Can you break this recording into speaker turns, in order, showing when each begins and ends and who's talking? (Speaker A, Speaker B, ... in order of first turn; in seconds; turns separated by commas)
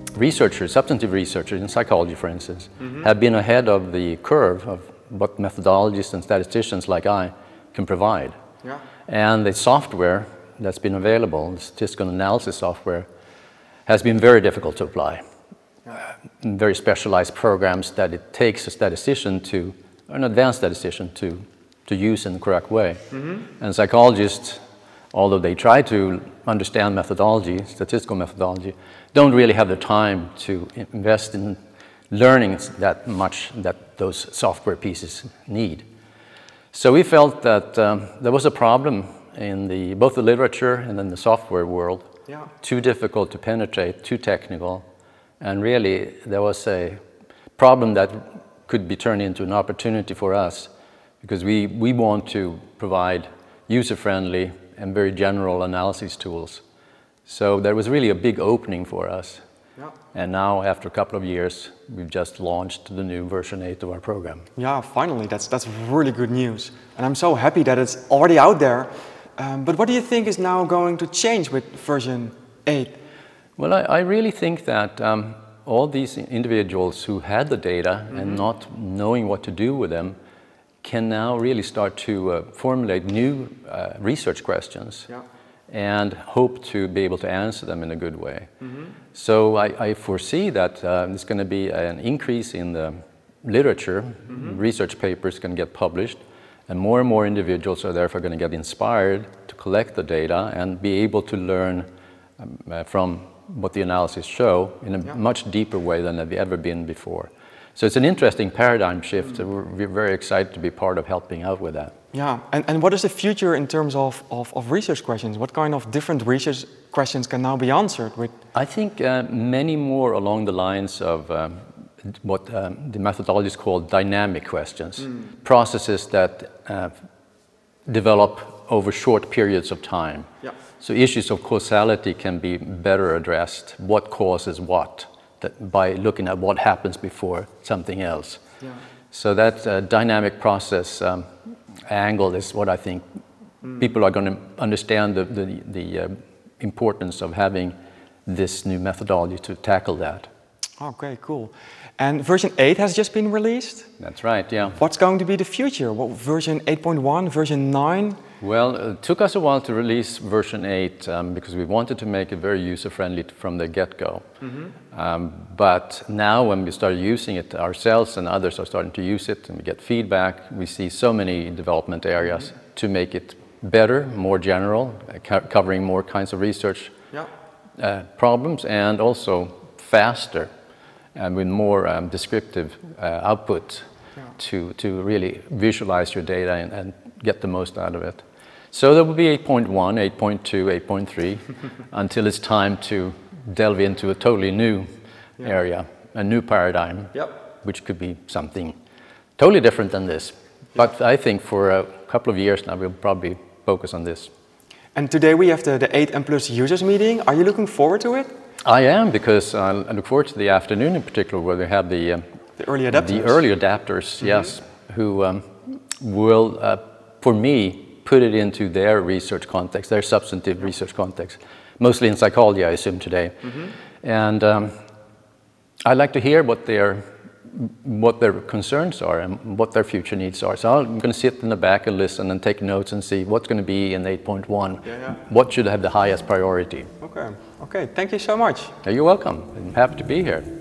Speaker A: 0.1-8.3, Speaker A: 9.1-13.1, Speaker A: 13.8-15.2, Speaker A: 15.9-23.0, Speaker A: 23.6-24.6, Speaker A: 25.1-31.6, Speaker A: 32.1-35.8, Speaker A: 36.7-42.0, Speaker A: 42.6-44.8, Speaker A: 45.4-47.0, Speaker A: 47.6-50.7, Speaker A: 51.2-56.6, Speaker A: 57.3-59.4, Speaker A: 60.1-64.4, Speaker B: 64.6-73.0, Speaker A: 73.6-80.2, Speaker A: 80.8-85.1, Speaker A: 85.7-88.5, Speaker A: 89.1-101.8, Speaker A: 102.4-111.9, Speaker B: 112.1-118.3, Speaker A: 118.5-126.9, Speaker A: 127.9-130.3, Speaker A: 130.8-138.4, Speaker A: 139.1-141.2, Speaker A: 141.9-143.0, Speaker A: 143.7-147.7, Speaker A: 148.2-150.3, Speaker B: 150.8-153.9, Speaker A: 154.0-154.8, Speaker B: 154.8-158.2, Speaker A: 158.4-164.2, Speaker A: 164.9-176.9, Speaker A: 177.8-180.5, Speaker A: 181.1-183.8, Speaker A: 184.4-194.8, Speaker A: 195.4-198.7, Speaker A: 199.4-204.3, Speaker B: 204.9-208.3, Speaker A: 208.6-212.2, Speaker B: 212.6-213.4, Speaker A: 212.9-224.7, Speaker A: 225.8-236.9, Speaker B: 234.9-235.1, Speaker B: 237.0-238.7, Speaker A: 238.8-240.4